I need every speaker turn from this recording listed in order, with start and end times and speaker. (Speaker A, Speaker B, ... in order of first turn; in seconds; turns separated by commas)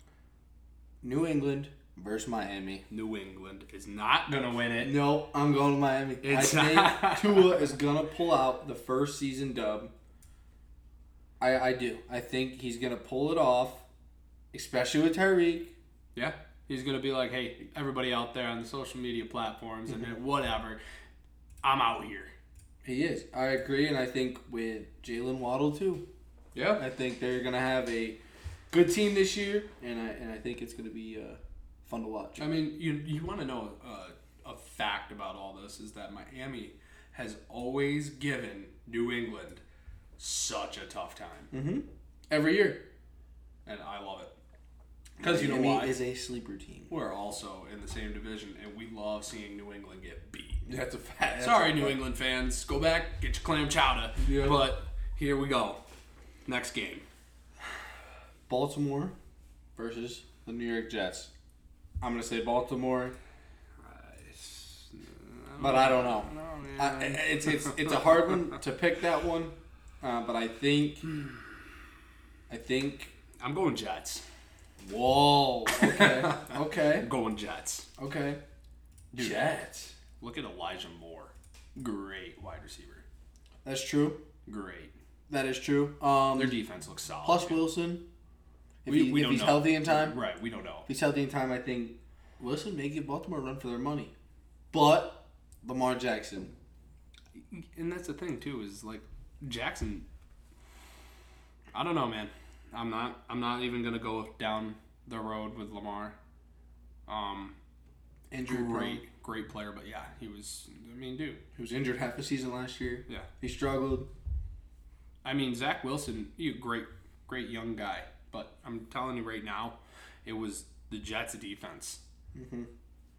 Speaker A: 1.0-2.8, Speaker B: 2.9-5.0, Speaker A: 4.8-9.9, Speaker B: 6.2-7.7, Speaker A: 11.4-13.8, Speaker A: 14.5-15.7, Speaker B: 16.1-20.8, Speaker B: 21.6-22.3, Speaker A: 22.9-26.0, Speaker B: 26.5-26.9, Speaker A: 26.8-28.2, Speaker A: 28.7-32.5, Speaker B: 32.4-39.6, Speaker B: 40.2-41.5, Speaker A: 41.5-42.8, Speaker B: 43.7-44.3, Speaker A: 45.2-46.9, Speaker B: 45.2-46.0, Speaker B: 46.9-50.6, Speaker A: 50.7-52.0, Speaker B: 51.4-55.8, Speaker A: 54.2-54.6, Speaker B: 56.5-57.0, Speaker A: 58.5-59.1, Speaker A: 59.8-61.3, Speaker A: 62.0-63.1, Speaker B: 63.8-68.6, Speaker A: 65.6-71.0, Speaker A: 72.5-73.1, Speaker B: 73.4-74.2, Speaker A: 74.8-77.1, Speaker B: 75.7-77.9, Speaker A: 78.0-78.4, Speaker B: 79.1-79.5, Speaker A: 79.2-79.9, Speaker B: 80.2-83.0, Speaker A: 83.6-84.2, Speaker B: 84.5-84.9, Speaker A: 85.3-86.6, Speaker B: 86.3-87.7, Speaker A: 87.2-88.0, Speaker A: 88.8-90.2, Speaker B: 88.9-90.9, Speaker A: 90.9-94.1, Speaker A: 94.7-96.5, Speaker B: 97.5-100.1, Speaker B: 101.7-106.2, Speaker B: 107.1-107.5, Speaker A: 108.3-109.0, Speaker B: 108.5-111.4, Speaker A: 111.5-114.1, Speaker B: 115.2-122.0, Speaker A: 122.3-122.7